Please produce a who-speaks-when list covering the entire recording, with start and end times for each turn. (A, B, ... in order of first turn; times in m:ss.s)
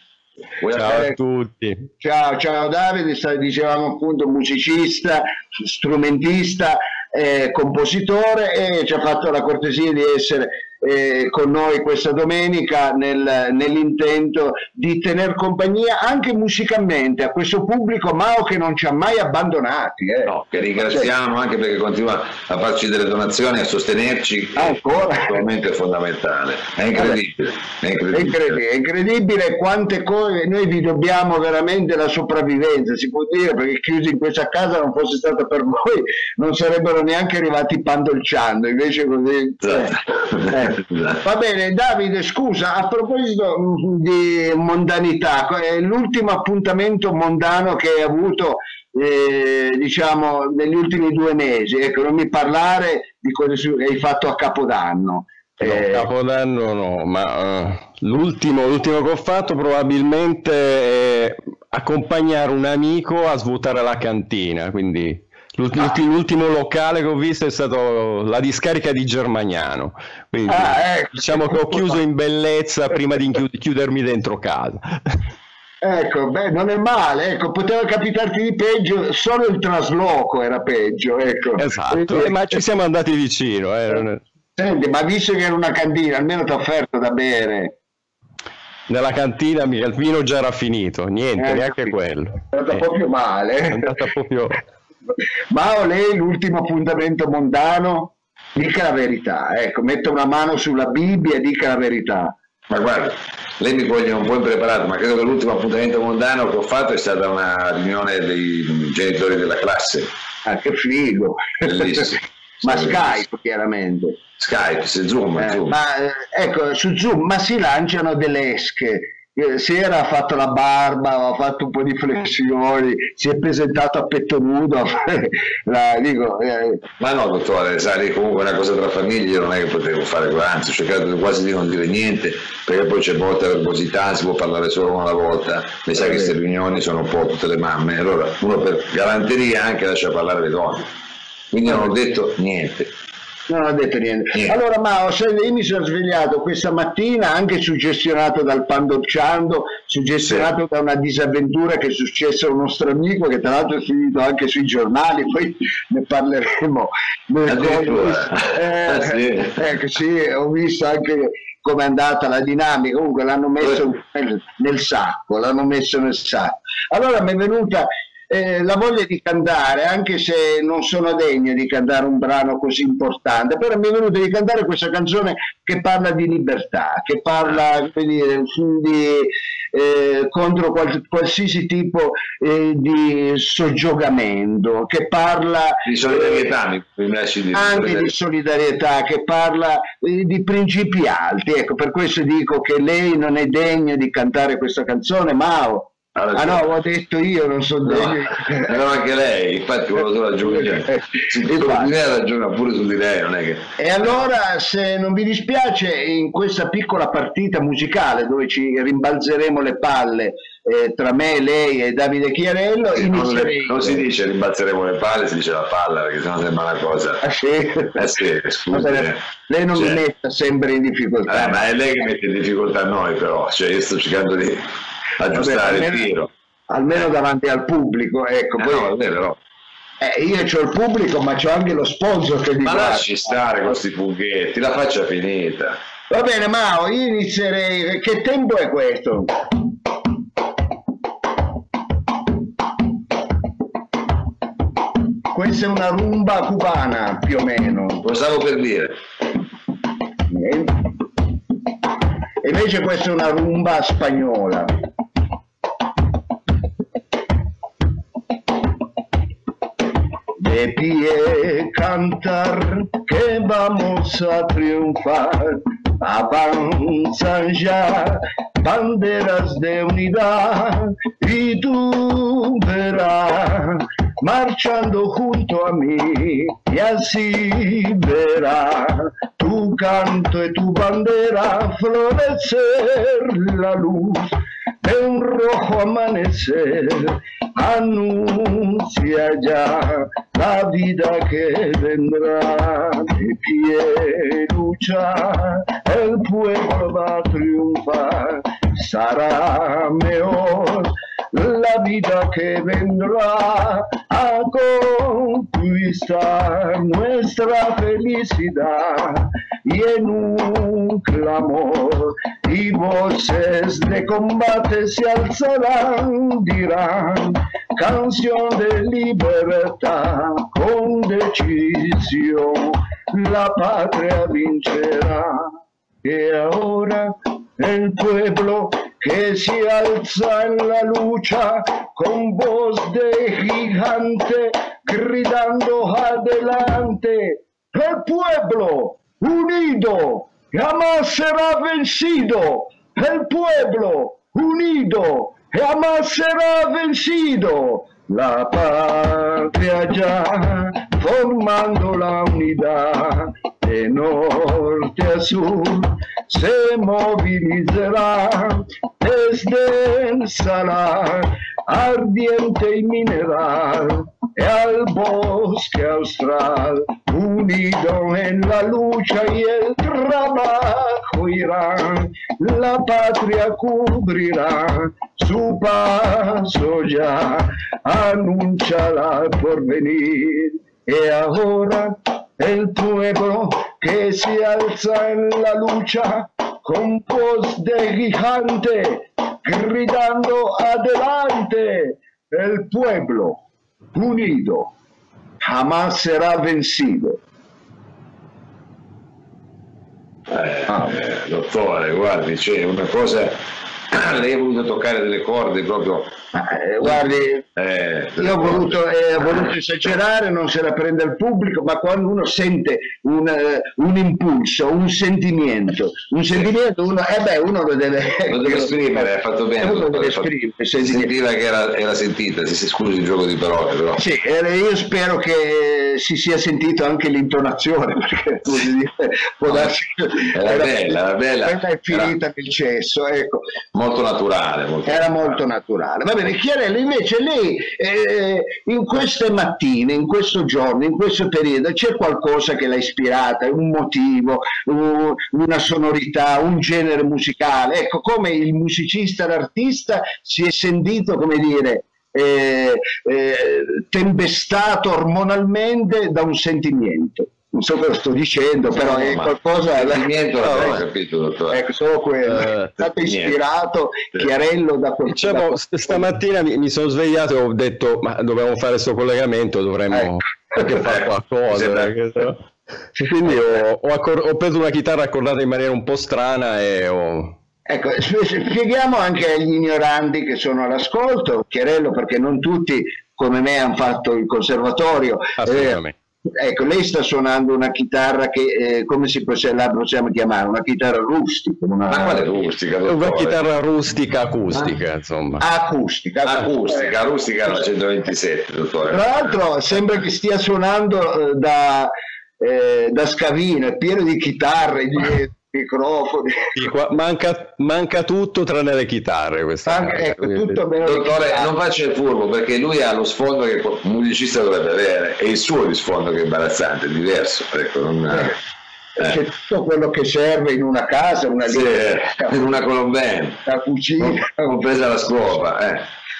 0:00.6-0:01.1 A
0:00.7-0:01.9 B
0:00.8-0:01.1 C
0:02.0-0:21.1 C
0:20.3-0:28.6 A
0:24.6-0:25.4 C
0:26.9-0:27.2 C
0:28.1-0:56.1 C
0:39.6-0:41.2 A
0:55.6-1:14.9 B
1:10.5-1:12.0 C
1:15.8-1:22.6 C
1:21.6-1:24.2 B
1:24.6-1:27.8 C
1:28.9-1:32.8 B
1:31.4-1:31.9 C
1:32.5-1:34.0 C
1:33.7-1:34.6 B
1:35.5-1:42.4 C
1:42.7-1:50.1 A
1:50.4-1:54.2 C
1:51.6-1:53.2 A
1:54.4-1:55.8 A
1:55.4-2:06.8 C
2:07.0-2:20.9 A
2:15.9-2:16.4 C
2:21.5-2:22.9 A
2:23.5-3:06.5 C
2:37.4-2:39.7 A
3:05.8-3:08.1 A
3:07.5-3:18.8 C
3:16.2-3:16.7 A
3:17.8-3:23.6 A
3:20.5-3:21.9 C
3:23.8-3:34.0 C
3:33.0-3:37.2 A
3:37.2-3:38.2 C
3:37.9-3:39.2 A
3:38.7-3:41.6 C
3:39.7-3:40.0 A
3:41.3-3:44.7 A
3:45.2-3:46.3 A
3:45.3-3:46.1 C
3:46.7-3:48.9 C
3:48.6-3:49.4 A
3:50.0-3:53.1 C
3:52.6-3:55.8 A
3:56.1-3:59.3 C
4:05.3-4:08.0 C
4:08.0-4:08.9 A
4:10.3-4:10.8 C
4:12.4-4:14.7 C
4:20.4-6:33.4 C
6:33.9-6:34.7 C
6:35.4-6:37.2 C
6:40.3-6:43.4 A
6:43.9-6:46.1 A
6:46.3-6:47.4 C
6:47.6-6:48.8 A
6:48.2-6:59.1 C
6:58.3-7:04.0 A
6:59.6-7:01.1 C
7:04.0-7:13.6 C
7:09.4-7:09.7 A
7:10.3-7:12.1 A
7:13.7-7:15.4 A
7:14.8-7:40.8 C
7:38.7-7:41.6 A
7:41.5-7:46.1 C
7:42.3-7:42.7 B
7:43.0-7:43.4 A
7:45.1-7:52.4 B
7:50.7-7:51.9 A
7:53.0-7:57.4 B
7:57.7-8:05.8 C
8:05.4-8:06.0 B
8:06.4-8:12.3 C
8:11.9-8:13.4 A
8:12.9-8:15.4 B
8:15.4-8:16.9 C
8:16.2-8:19.4 A
8:18.9-8:26.5 C
8:26.6-8:30.6 B
8:29.7-8:31.5 C
8:30.8-8:38.4 A
8:39.0-8:42.3 C
8:41.5-8:43.4 A
8:43.4-8:44.6 C
8:44.0-8:45.9 A